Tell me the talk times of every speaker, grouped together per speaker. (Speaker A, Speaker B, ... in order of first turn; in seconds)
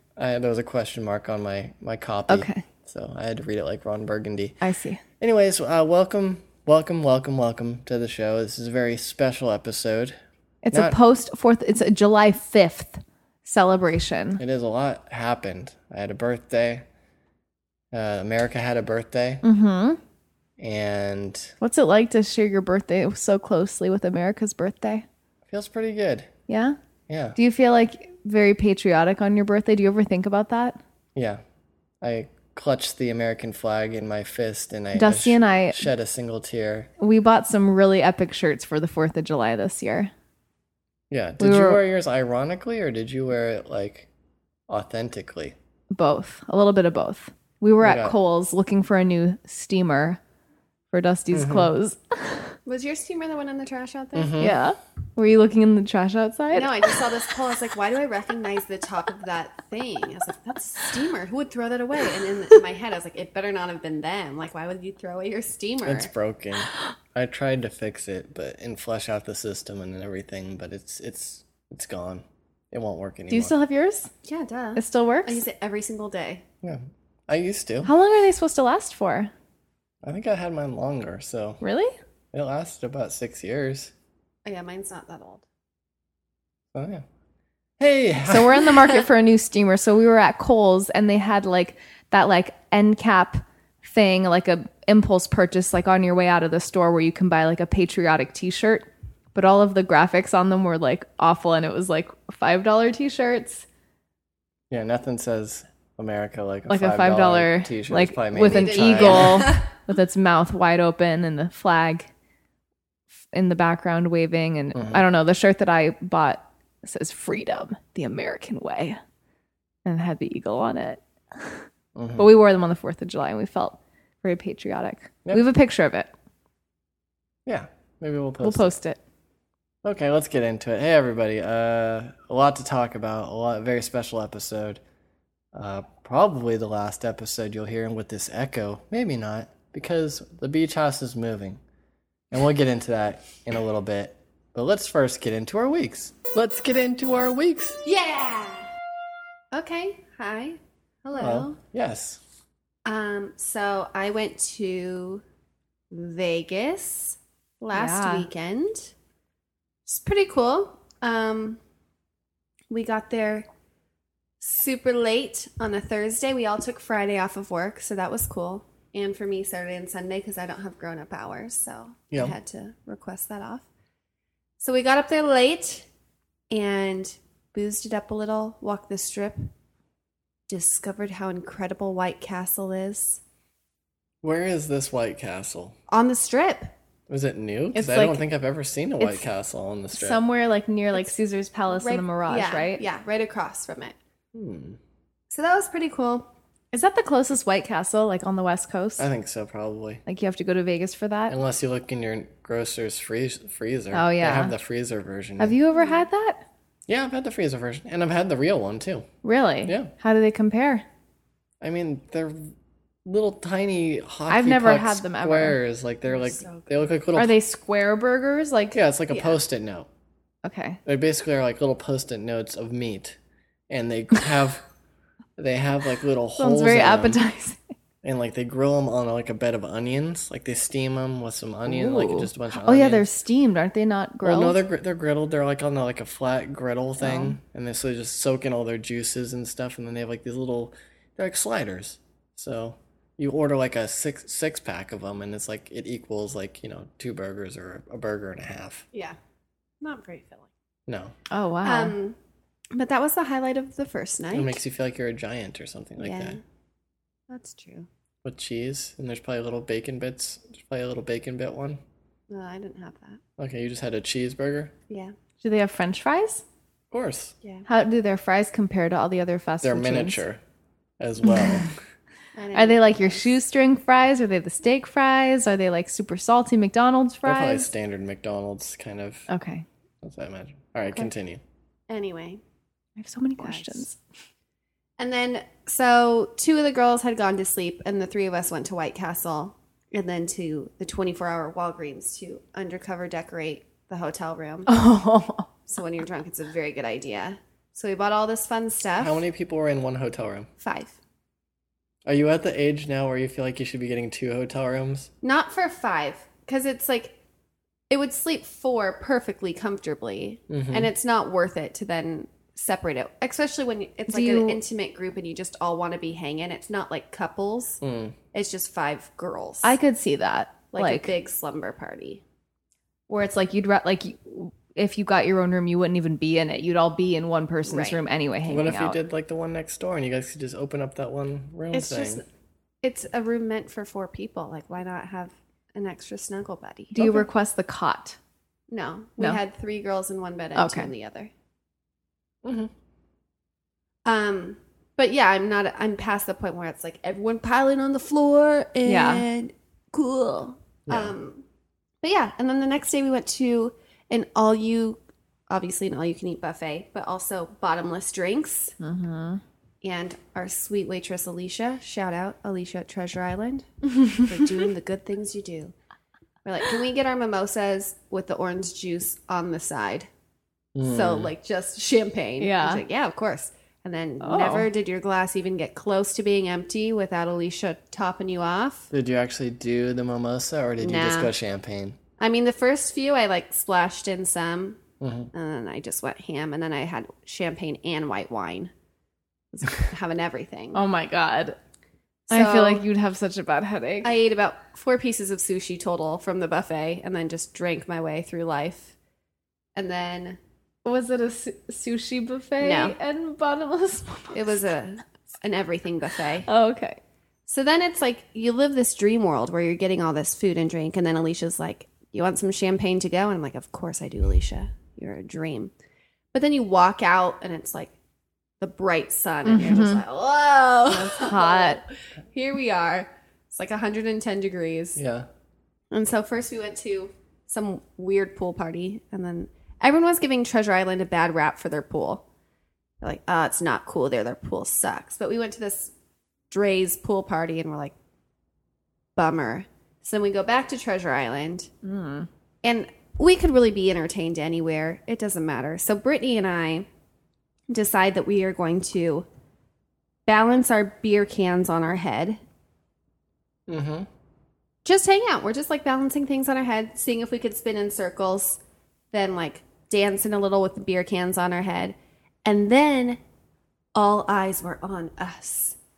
Speaker A: 0.2-4.6, 5.2-10.2, 14.4-16.9, 17.9-19.4, 20.6-21.5, 25.5-26.3, 27.1-27.4, 31.1-31.4, 32.0-36.9, 41.1-44.1, 44.7-45.6, 47.8-48.2, 51.3-51.7, 54.1-54.6, 65.8-73.5, 76.6-77.9, 80.0-81.6, 82.3-83.9, 86.7-87.0, 87.8-88.7, 104.7-109.5, 114.8-115.0, 122.0-122.3, 127.5-128.8, 129.8-134.8, 135.5-141.6, 142.3-147.8, 151.2-152.2, 184.2-185.8, 187.1-190.2, 194.3-194.8, 199.0-200.0, 201.3-205.6, 206.9-209.1, 209.7-209.9, 211.6-212.5, 213.1-217.3, 218.7-219.9, 220.8-223.2, 223.7-224.7, 225.4-227.2, 228.0-233.1, 234.2-248.9, 250.9-251.1, 254.3-256.4, 258.2-261.8, 263.4-264.7, 266.9-267.4, 269.6-270.4, 271.0-271.7, 277.2-279.3, 280.0-281.4, 299.0-300.5, 302.1-305.1, 310.5-310.9, 317.8-318.1, 328.5-332.2, 342.4-342.7, 350.9-351.1, 370.8-371.3, 378.9-382.0, 385.0-385.3, 425.0-425.3, 453.7-454.1
Speaker B: 2.3-2.6, 4.6-5.0, 10.6-14.4, 19.4-20.0, 21.6-25.1, 26.5-26.8, 27.4-30.8, 35.0-35.9, 37.0-40.1, 41.4-41.8, 45.9-50.2, 50.9-52.5, 54.4-56.9, 73.3-74.1, 74.8-75.4, 77.8-79.3, 81.6-81.9, 88.2-103.7, 106.7-112.1, 113.3-119.0, 119.8-121.7, 122.2-126.1, 128.4-129.0, 157.7-158.3, 187.7-188.2, 189.9-192.8, 196.7-199.1, 200.1-201.4, 203.9-204.6, 205.4-206.4, 209.2-210.8, 214.3-215.6, 217.1-218.8, 220.4-220.8, 226.4-227.6, 231.7-234.6, 237.0-237.4, 251.3-252.0, 265.4-266.4, 267.7-270.2, 271.3-271.6, 272.5-277.7, 279.3-279.7, 283.0-283.9, 294.7-295.5, 314.1-314.6, 319.6-321.1, 323.1-329.0, 336.9-338.2, 340.6-340.9, 348.9-349.2, 358.8-359.4, 372.4-372.8, 374.2-374.7, 390.7-391.6, 392.3-394.1, 400.9-404.6, 406.4-407.0, 419.5-420.0, 421.0-421.8, 441.8-442.3
Speaker C: 52.7-54.4, 56.5-66.1, 74.2-76.4, 84.5-85.4, 108.5-109.7, 147.8-148.7, 149.5-151.6, 152.8-155.2, 155.9-158.9, 159.9-161.6, 162.7-163.5, 164.4-173.7, 174.6-175.9, 176.5-179.5, 180.5-183.2, 185.9-186.7, 191.7-193.9, 195.3-196.3, 205.7-206.0, 216.1-216.8, 249.8-250.5, 251.6-252.2, 252.7-254.6, 256.0-256.4, 257.3-257.9, 262.3-263.2, 272.4-273.3, 281.9-282.4, 283.4-283.9, 285.0-294.7, 295.7-299.2, 300.6-301.0, 305.2-307.2, 307.9-317.8, 318.3-319.8, 320.7-322.2, 327.7-328.0, 331.7-332.2, 332.8-337.3, 338.7-341.3, 344.1-351.4, 352.0-358.8, 359.8-365.7, 366.4-370.1, 370.8-378.9, 380.8-381.3, 382.2-384.8, 385.3-388.7, 389.5-390.8, 392.3-392.8, 394.0-398.9, 399.8-400.4, 402.6-403.0, 404.3-406.5, 407.5-415.7, 416.3-417.9, 418.6-425.0, 425.9-432.2, 433.0-435.9, 436.5-437.9, 439.2-441.7, 442.6-446.9, 447.7-449.3, 450.3-452.4, 454.9-458.6, 459.1-463.2, 463.9-465.8